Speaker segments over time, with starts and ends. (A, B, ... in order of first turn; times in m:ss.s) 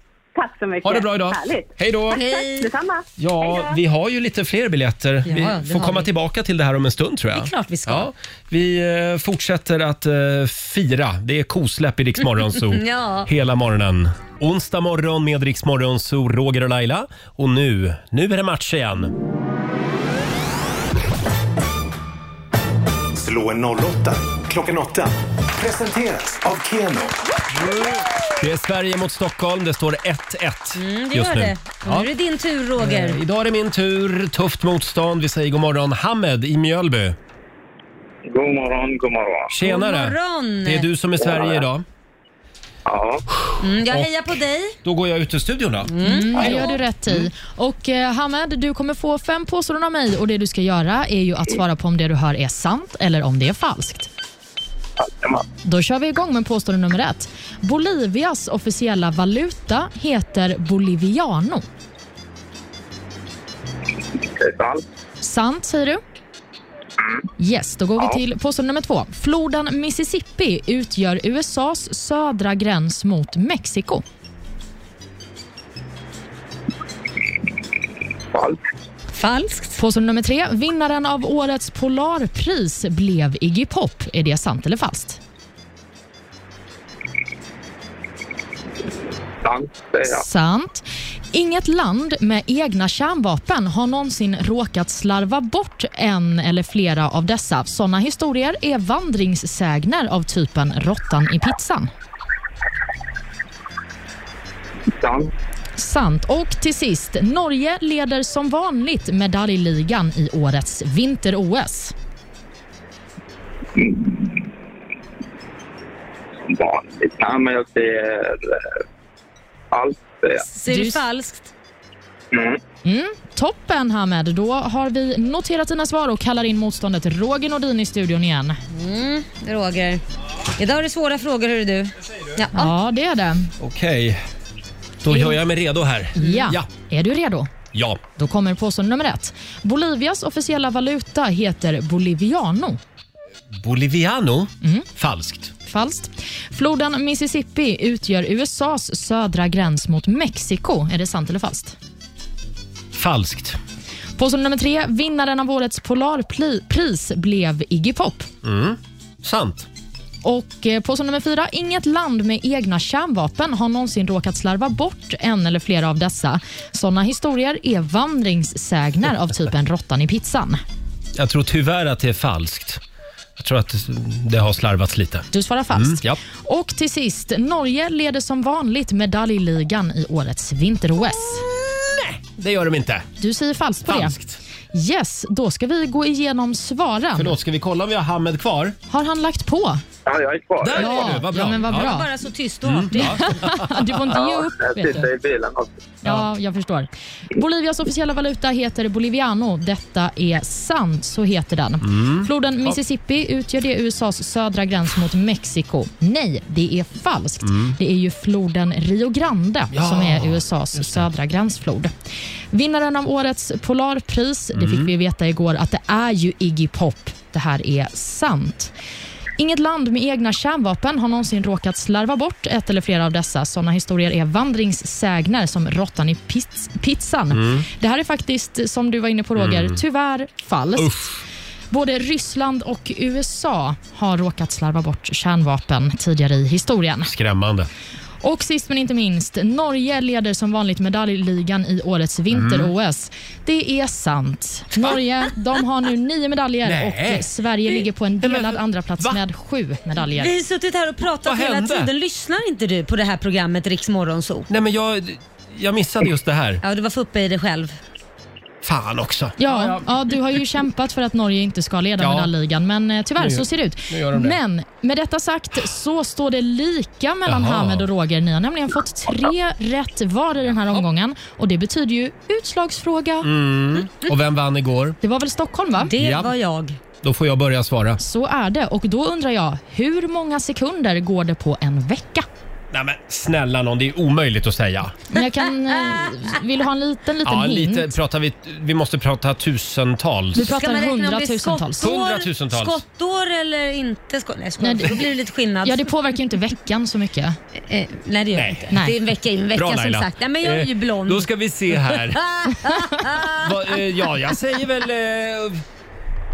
0:00.4-0:03.8 A
0:00.8-0:02.3 B
0:02.1-0:02.7 C
0:03.2-0:19.1 B
0:05.3-0:06.1 C
0:07.3-0:08.1 C
0:12.6-0:13.3 C
0:23.2-0:27.2 D
0:27.5-0:32.1 B
0:30.8-0:33.2 C
0:32.8-0:37.2 B
0:38.2-0:39.5 E
0:39.5-0:41.8 B
0:39.6-0:40.9 C
0:41.2-0:41.6 E
0:42.9-0:43.2 E
0:43.4-0:44.1 B
0:43.6-0:44.8 C
0:44.8-0:47.3 B
0:45.9-0:46.8 C
0:46.0-0:54.1 F
0:55.0-0:55.4 E
0:55.6-1:01.7 F
1:04.4-1:04.8 E
1:05.2-1:06.0 F
1:07.4-1:14.0 F
1:19.1-1:19.8 C
1:19.8-1:25.2 F
1:29.4-1:30.2 E
1:30.1-1:41.9 F
1:45.0-1:45.3 E
1:45.8-1:51.9 F
1:53.8-1:54.5 E
1:56.4-1:58.7 E
1:59.7-2:00.5 E
2:00.4-2:01.5 C
2:00.7-2:01.0 F
2:02.3-2:02.6 E
2:02.8-2:08.6 F
2:08.7-2:10.0 C
2:10.6-2:12.7 C
2:12.5-2:13.5 F
2:13.6-2:14.2 B
2:15.0-2:16.7 B
2:15.1-2:15.4 F
2:16.2-2:17.5 F
2:16.2-2:16.5 C
2:17.7-2:18.0 B
2:18.2-2:22.8 F
2:23.6-2:25.5 B
2:25.7-2:31.8 F
2:33.0-2:33.6 B
2:34.2-2:38.3 F
2:38.4-2:39.7 B
2:40.2-2:50.6 F
2:51.2-2:52.8 B
2:53.4-2:56.2 B
2:55.3-3:01.4 F
3:01.4-3:03.1 B
3:03.2-3:04.2 F
3:03.9-3:04.4 B
3:04.7-3:07.4 F
3:07.2-3:08.8 B
3:08.9-3:09.8 F
3:10.1-3:11.0 E
3:10.6-3:12.0 B
3:10.8-3:12.1 F
3:11.7-3:13.3 C
3:12.6-3:13.9 B
3:13.0-3:15.1 F
3:14.1-3:15.8 E
3:16.0-3:31.9 F
3:21.8-3:22.8 B
3:27.4-3:27.8 B
3:29.7-3:31.1 B
3:32.5-3:38.7 F
3:34.5-3:34.9 B
3:39.4-3:51.1 F
3:47.3-3:47.7 B
3:49.4-3:49.8 B
3:50.8-3:51.2 B
3:51.7-3:57.1 F
3:57.0-3:57.7 B
3:58.2-4:10.3 F
4:02.3-4:02.7 B
4:06.6-4:07.3 B
4:08.2-4:09.2 B
4:10.1-4:14.5 C
4:11.2-4:11.9 B
4:14.5-4:16.6 B
4:16.6-4:17.8 C
4:18.6-4:19.9 B
4:19.4-4:33.3 F
4:22.0-4:22.3 B
4:23.2-4:24.4 B
4:27.3-4:27.9 B
4:33.2-4:35.0 B
4:35.0-4:35.9 F
4:35.8-4:36.8 C
4:36.0-4:36.3 B
4:37.0-4:38.0 B
4:38.0-4:42.3 F
4:42.7-4:45.0 B
4:45.1-4:47.9 F
4:47.2-4:50.5 B
4:50.4-4:51.8 F
4:50.4-4:56.0 C
4:51.8-4:52.8 B
4:54.6-4:55.0 F
4:55.6-4:57.4 F
4:57.5-5:03.8 C
4:58.4-4:58.7 B
4:59.5-5:02.2 B
5:03.4-5:05.6 B